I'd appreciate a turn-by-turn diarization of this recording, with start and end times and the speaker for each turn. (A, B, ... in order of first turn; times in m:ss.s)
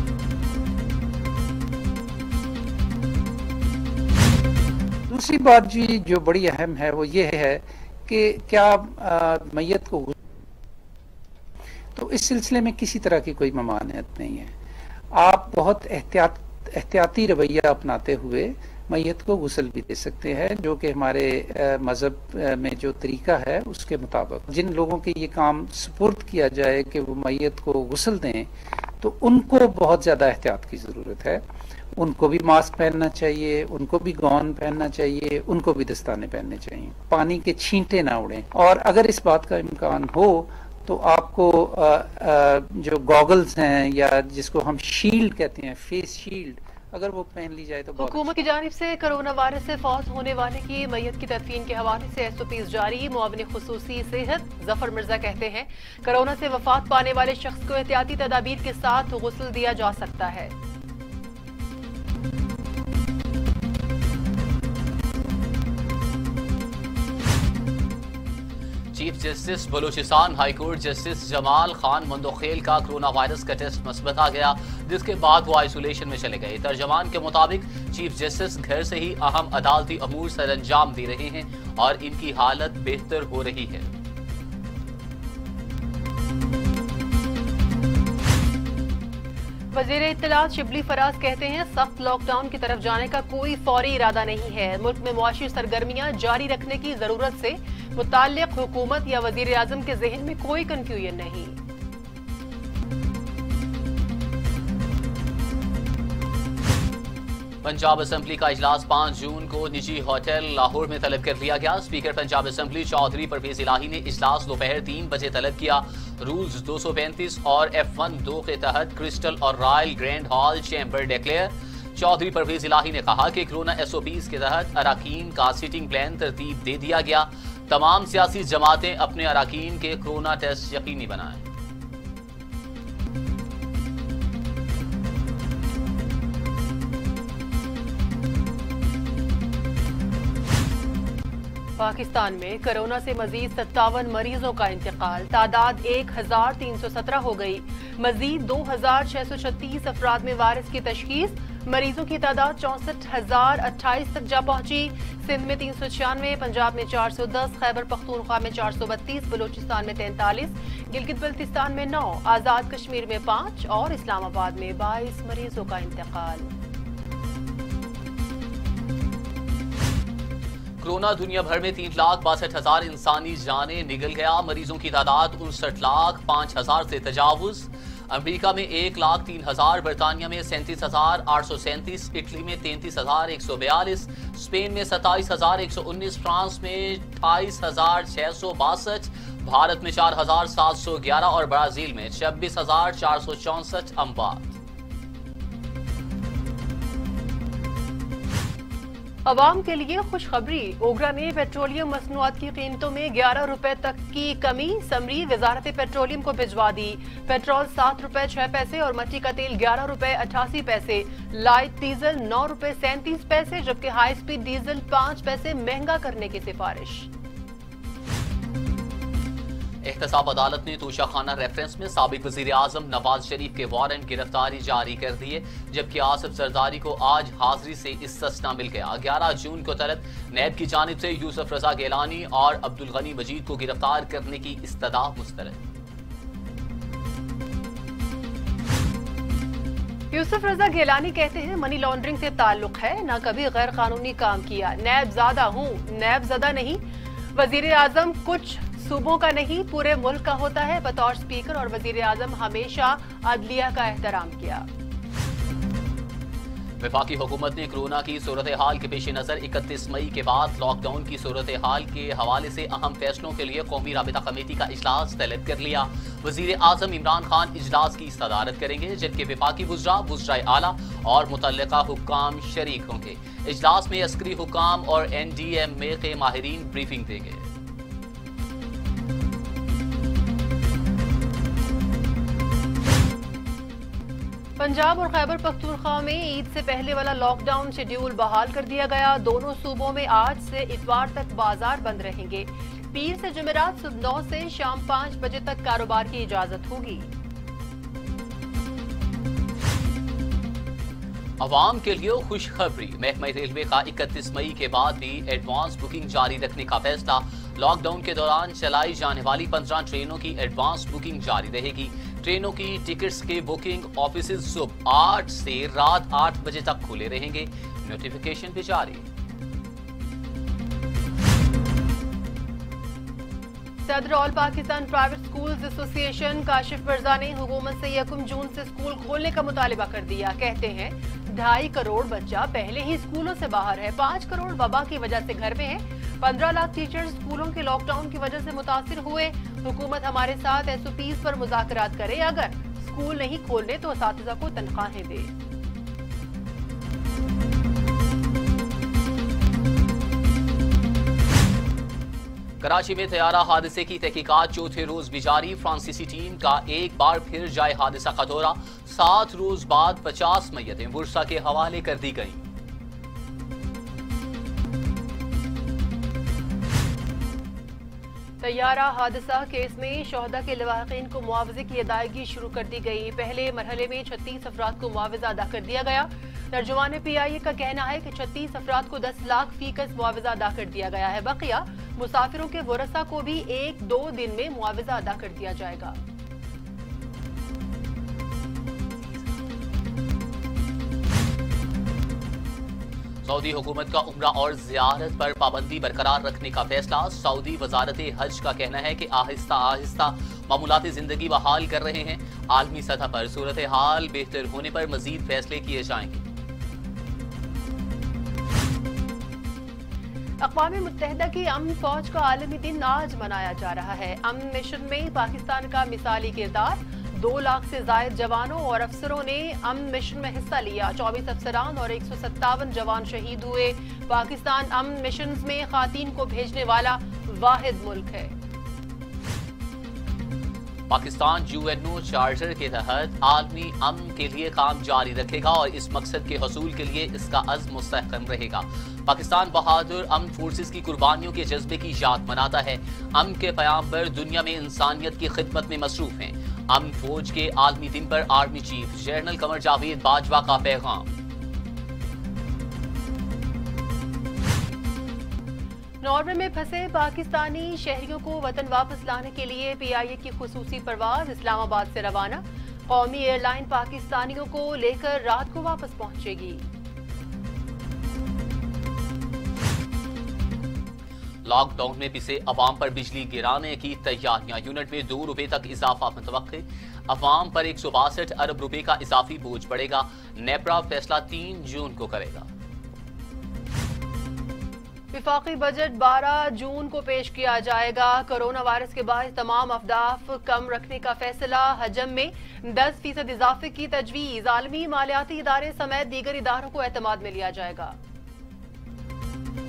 0:05.1-0:10.1 A
0:11.9-0:14.5 A
0:15.1-0:31.4 A
0:32.0-0:48.3 A
0:48.0-1:00.5 B
1:08.9-1:23.9 C
1:29.7-1:41.6 B
1:47.6-2:11.5 C
2:21.8-2:46.5 B
2:50.8-3:14.6 C
3:19.3-3:37.1 B
3:39.8-3:55.6 C
4:00.1-4:06.8 B
4:07.3-4:14.7 B
4:16.8-4:37.5 C
4:44.6-4:57.1 B
5:01.4-5:19.1 C
5:23.8-5:45.3 B
5:52.6-6:02.4 C
6:08.4-6:26.0 B
6:33.2-6:46.2 C
6:50.4-7:08.3 B
7:10.9-7:31.1 C
7:36.0-7:46.6 B
7:51.4-8:02.5 C
8:05.1-8:18.0 B